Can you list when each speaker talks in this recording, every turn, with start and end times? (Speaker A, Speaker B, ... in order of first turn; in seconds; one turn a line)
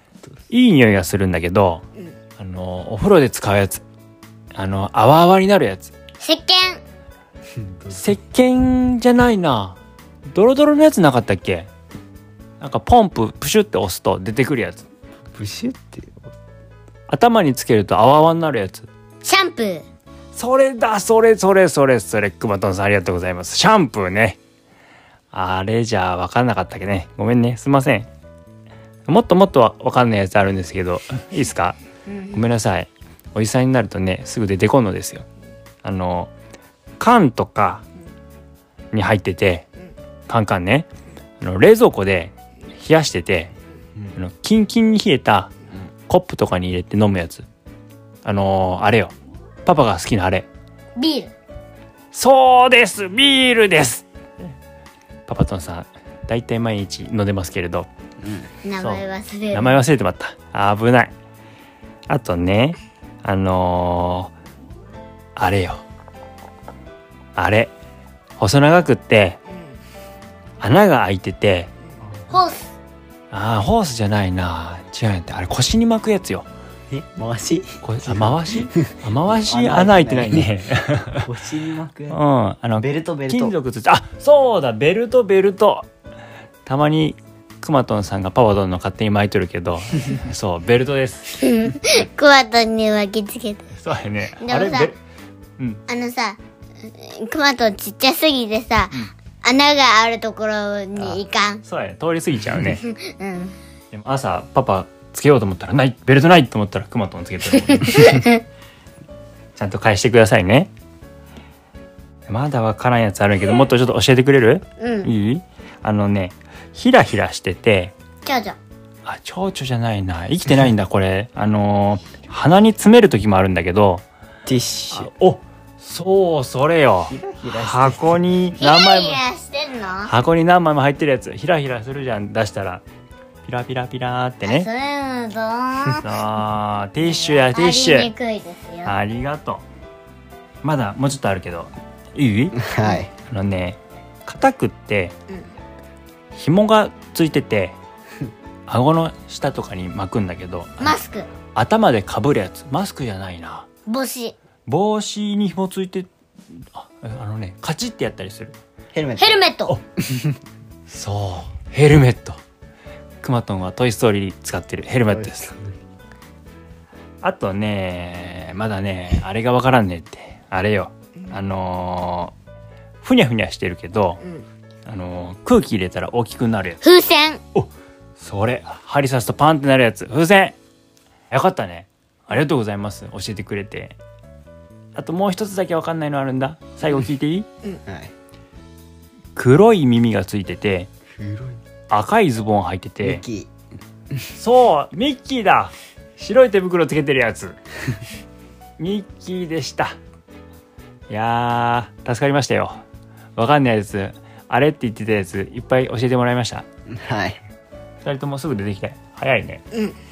Speaker A: 0.5-1.8
Speaker A: 2.4-3.8
Speaker A: 4.5-5.9
Speaker B: 6.2-6.8
Speaker C: 7.7-8.0
Speaker A: 7.9-9.8
Speaker A: 10.3-11.7
Speaker A: 12.6-14.9
Speaker C: 15.3-16.3
Speaker A: 17.1-18.9
Speaker B: 19.2-19.8
Speaker A: 20.3-24.4
Speaker A: 25.3-28.1
Speaker A: 29.1-31.8
Speaker B: 32.1-32.4
Speaker A: 32.3-35.2
Speaker A: 35.8-36.3
Speaker A: 37.0-37.8
Speaker A: 38.9-39.6
Speaker A: 40.3-40.9
Speaker A: 41.4-43.5
Speaker A: 44.1-45.5
Speaker A: 46.1-47.5
Speaker A: 48.2-49.1
Speaker A: 49.6-50.5
Speaker B: 51.0-51.3
Speaker A: 52.1-54.0
Speaker A: 55.3-57.9
Speaker C: 58.2-58.5
Speaker B: 58.6-59.8
Speaker A: 58.8-61.1
Speaker A: 62.1-64.3
Speaker A: 65.3-65.8
Speaker A: 67.3-67.7
Speaker A: 68.4-69.4
Speaker A: 70.6-71.7
Speaker B: 72.3-72.7
Speaker A: 73.3-76.5
Speaker C: 76.9-80.5
Speaker A: 77.8-81.3
Speaker C: 81.2-82.2
Speaker A: 82.1-85.8
Speaker C: 82.8-83.5
Speaker A: 86.7-91.4
Speaker B: 91.4-93.7
Speaker A: 93.8-95.0
Speaker B: 94.4-94.9
Speaker B: 95.9-101.6
Speaker A: 101.0-102.8
Speaker B: 102.7-103.6
Speaker A: 103.9-108.3
Speaker B: 107.7-108.4
Speaker A: 109.5-110.7
Speaker A: 112.3-117.9
Speaker B: 114.8-115.1
Speaker B: 118.2-118.6
Speaker A: 119.0-124.0
Speaker C: 124.5-125.1
Speaker A: 124.9-129.2
Speaker C: 127.1-128.0
Speaker B: 128.6-130.1
Speaker A: 130.0-132.8
Speaker A: 133.4-134.7
Speaker B: 134.4-136.0
Speaker A: 135.8-138.1
Speaker B: 137.0-138.9
Speaker A: 138.8-139.6
Speaker A: 140.6-142.6
Speaker C: 142.6-143.1
Speaker A: 143.2-145.1
Speaker A: 146.3-147.8
Speaker A: 148.7-151.0
Speaker B: 150.8-151.3
Speaker A: 151.5-153.7
Speaker B: 153.8-154.3
Speaker A: 154.7-156.1
Speaker A: 156.7-158.5
Speaker C: 158.9-159.4
Speaker B: 159.2-159.8
Speaker A: 160.9-162.4
Speaker A: 163.2-165.5
Speaker C: 165.1-165.7
Speaker A: 167.2-172.3
Speaker A: 173.0-174.2
Speaker A: 174.8-176.8
Speaker B: 176.8-177.4
Speaker A: 177.5-180.6
Speaker A: 181.3-184.0
Speaker A: 184.9-187.5
Speaker C: 187.8-188.1
Speaker A: 189.3-190.9
Speaker C: 191.2-191.6
Speaker A: 191.9-193.2
Speaker C: 193.0-193.5
Speaker A: 194.3-197.6
Speaker A: 198.8-200.0
Speaker A: 201.1-202.8
Speaker A: 203.3-206.7
Speaker C: 206.9-207.4
Speaker A: 208.0-209.6